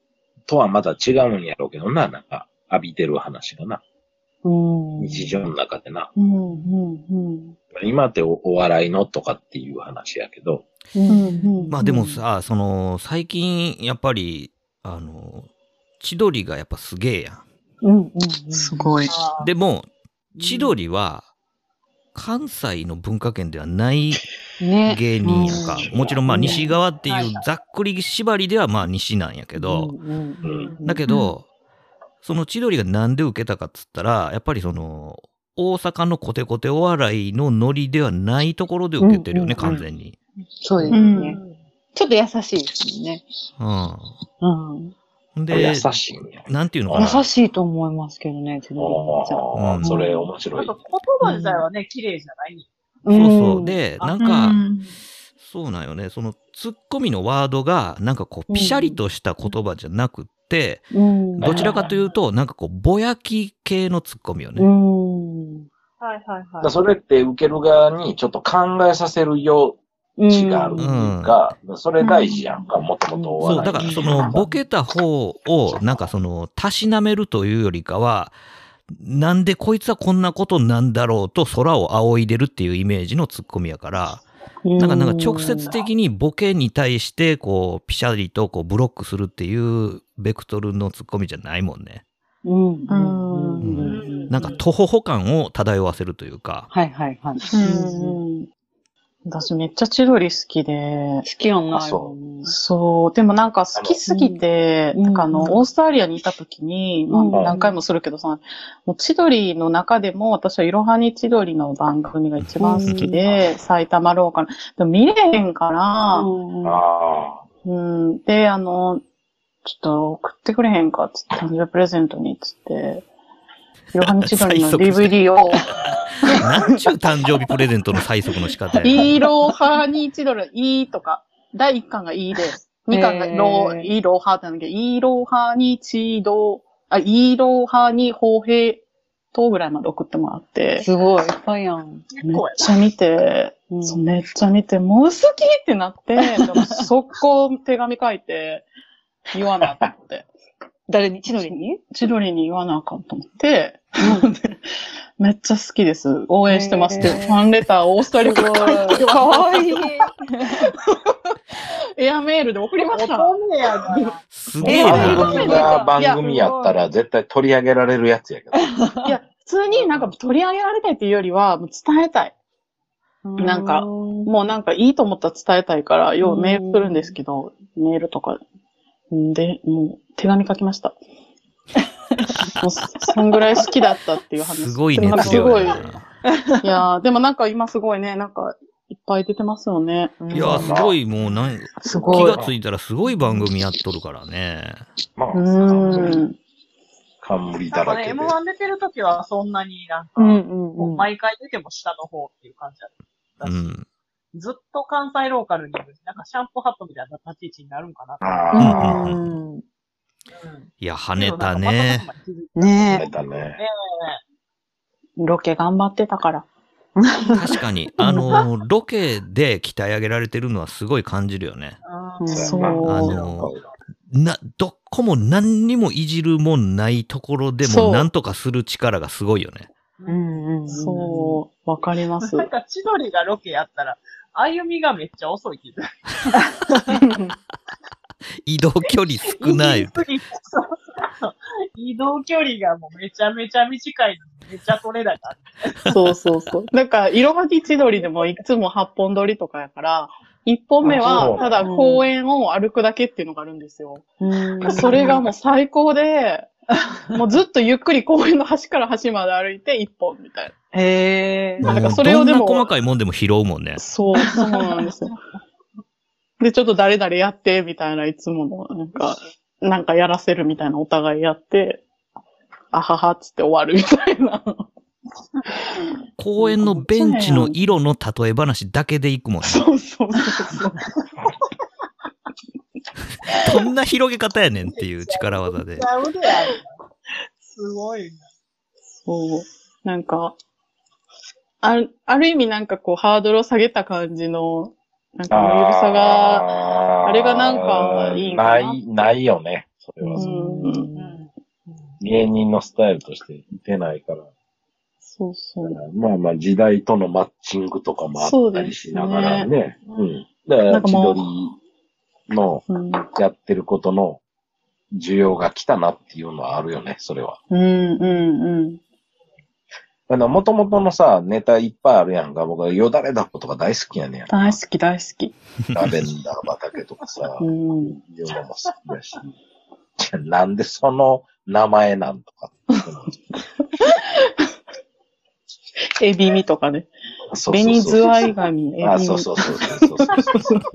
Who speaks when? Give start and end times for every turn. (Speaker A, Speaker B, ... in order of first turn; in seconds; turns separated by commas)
Speaker A: 0.5-3.8, Speaker B: 4.4-5.4, Speaker A: 5.0-6.1, Speaker C: 6.2-7.6, Speaker A: 7.7-10.7, Speaker B: 10.9-11.8, Speaker C: 11.1-12.2, Speaker D: 11.7-15.5, Speaker D: 16.0-17.4, Speaker B: 17.8-19.0, Speaker C: 18.5-19.2, Speaker E: 19.1-19.5, Speaker D: 19.4-19.9, Speaker E: 20.4-20.8, Speaker D: 20.4-21.3, Speaker D: 22.1-24.3, Speaker B: 24.6-26.8, Speaker D: 24.9-29.9, Speaker A: 25.6-26.2, Speaker E: 27.1-27.4, Speaker B: 29.6-31.3, Speaker A: 30.4-30.8, Speaker E: 30.5-30.8, Speaker D: 30.8-31.4, Speaker D: 32.2-40.2, Speaker B: 39.0-39.8, Speaker B: 40.6-41.4, Speaker E: 40.9-41.6, Speaker C: 40.9-41.4, Speaker B: 42.0-43.2, Speaker D: 43.6-44.1, Speaker B: 44.4-44.9, Speaker D: 45.4-45.9, Speaker A: 45.5-47.2, Speaker D: 46.5-47.2, Speaker B: 46.9-50.2, Speaker A: 48.8-50.8, Speaker D: 49.5-50.0, Speaker E: 50.5-52.7, Speaker B: 51.2-51.6, Speaker B: 53.0-53.8, Speaker D: 53.1-54.6, Speaker E: 54.0-54.2, Speaker C: 54.2-54.9, Speaker D: 55.4-60.9, Speaker B: 58.5-59.0, Speaker B: 60.9-61.7, Speaker A: 61.4-61.9, Speaker D: 61.4-64.7, Speaker E: 61.8-62.0, Speaker B: 64.6-65.7, Speaker E: 66.0-66.7, Speaker A: 66.6-74.5, Speaker B: 70.2-71.1, Speaker D: 70.8-71.4, Speaker B: 73.2-74.4, Speaker D: 73.4-78.3, Speaker D: 78.9-84.2, Speaker B: 84.7-85.8, Speaker D: 84.8-92.0, Speaker B: 92.5-94.0, Speaker C: 92.9-94.3, Speaker D: 93.6-96.7, Speaker E: 93.8-94.6, Speaker B: 96.7-98.2, Speaker C: 97.5-98.5, Speaker C: 99.3-101.2, Speaker B: 101.2-102.5, Speaker A: 101.7-102.1, Speaker C: 102.5-116.3, Speaker B: 104.1-104.4, Speaker B: 104.9-105.6, Speaker B: 107.1-107.8, Speaker B: 112.6-113.2, Speaker B: 116.1-116.8, Speaker A: 116.6-117.4, Speaker C: 117.7-119.0, Speaker C: 119.7-123.0, Speaker C: 123.9-125.7, Speaker D: 124.0-125.3, Speaker D: 126.4-129.1, Speaker C: 128.8-138.8, Speaker B: 132.9-133.9, Speaker C: 139.3-140.9, Speaker B: 140.8-142.1, Speaker E: 142.1-142.8, Speaker C: 142.3-148.7, Speaker B: 143.7-144.0, Speaker B: 146.3-146.7, Speaker C: 149.3-150.3, Speaker B: 150.9-151.8, Speaker C: 151.3-154.6, Speaker B: 154.0-154.3, Speaker C: 155.2-159.9, Speaker B: 156.5-157.5, Speaker B: 158.2-160.7, Speaker C: 160.4-161.2, Speaker C: 162.0-164.1, Speaker E: 162.9-164.2, Speaker D: 164.3-165.5, Speaker A: 164.6-168.7, Speaker B: 164.6-166.8, Speaker C: 164.9-166.3, Speaker E: 164.9-165.7, Speaker B: 168.6-169.2, Speaker C: 169.1-172.3, Speaker E: 169.8-170.0, Speaker B: 173.2-174.3, Speaker C: 173.4-178.4, Speaker B: 176.2-177.2, Speaker C: 179.1-181.0, Speaker B: 182.2-182.6, Speaker C: 182.6-185.8, Speaker D: 184.4-186.1, Speaker B: 185.1-185.6, Speaker B: 186.3-186.7, Speaker C: 186.6-190.3, Speaker B: 190.2-190.8, Speaker D: 190.3-194.8, Speaker A: 190.6-191.0, Speaker A: 191.8-192.5, Speaker C: 191.8-192.4, Speaker A: 195.2-196.2, Speaker C: 195.3-196.4, Speaker E: 195.8-196.1, Speaker A: 197.2-198.3, Speaker E: 197.7-203.8, Speaker B: 200.2-201.1, Speaker D: 203.4-203.9, Speaker E: 204.3-208.4, Speaker A: 208.2-209.0, Speaker B: 208.5-209.6, Speaker D: 208.6-209.3, Speaker E: 210.3-214.2, Speaker D: 210.8-212.1, Speaker B: 212.6-213.1, Speaker A: 212.9-213.6, Speaker C: 215.2-216.4, Speaker B: 217.0-218.4, Speaker D: 217.3-221.8, Speaker E: 221.8-223.6, Speaker B: 222.2-222.8, Speaker A: 222.3-223.7, Speaker C: 222.4-223.2, Speaker D: 222.9-223.5, Speaker D: 224.1-229.7, Speaker C: 227.6-228.1, Speaker B: 230.1-231.4, Speaker C: 230.7-232.5, Speaker E: 232.2-235.9, Speaker C: 237.0-237.3, Speaker D: 238.4-240.0, Speaker E: 239.2-245.9, Speaker C: 245.9-254.1, Speaker A: 250.8-251.6, Speaker E: 251.0-251.4, Speaker B: 251.6-252.1, Speaker B: 254.2-255.2, Speaker C: 254.6-256.5, Speaker C: 257.1-260.5, Speaker B: 260.7-261.8, Speaker D: 261.6-263.8, Speaker C: 261.6-262.7, Speaker C: 263.8-265.1, Speaker C: 266.4-271.8, Speaker C: 272.7-274.7, Speaker C: 275.6-275.9, Speaker D: 276.2-279.6, Speaker C: 276.4-277.6, Speaker C: 279.4-280.9, Speaker D: 283.3-285.9, Speaker E: 284.7-286.7, Speaker E: 287.4-288.2, Speaker C: 289.0-290.3, Speaker C: 291.6-298.8, Speaker A: 295.3-300.3, Speaker B: 300.0-301.2, Speaker C: 300.2-300.9, Speaker E: 300.9-302.0, Speaker A: 302.0-304.3, Speaker C: 305.1-305.8, Speaker A: 305.6-311.5, Speaker C: 308.2-309.5, Speaker C: 310.7-311.3, Speaker A: 312.3-314.2, Speaker C: 312.7-313.1, Speaker A: 314.9-317.4, Speaker C: 317.5-318.8, Speaker A: 320.1-324.6, Speaker C: 324.3-325.3, Speaker A: 325.7-329.2, Speaker C: 327.4-328.0, Speaker A: 330.0-333.1, Speaker C: 333.6-334.5, Speaker C: 336.0-336.9, Speaker A: 337.3-340.5, Speaker C: 337.5-340.7, Speaker E: 340.1-340.4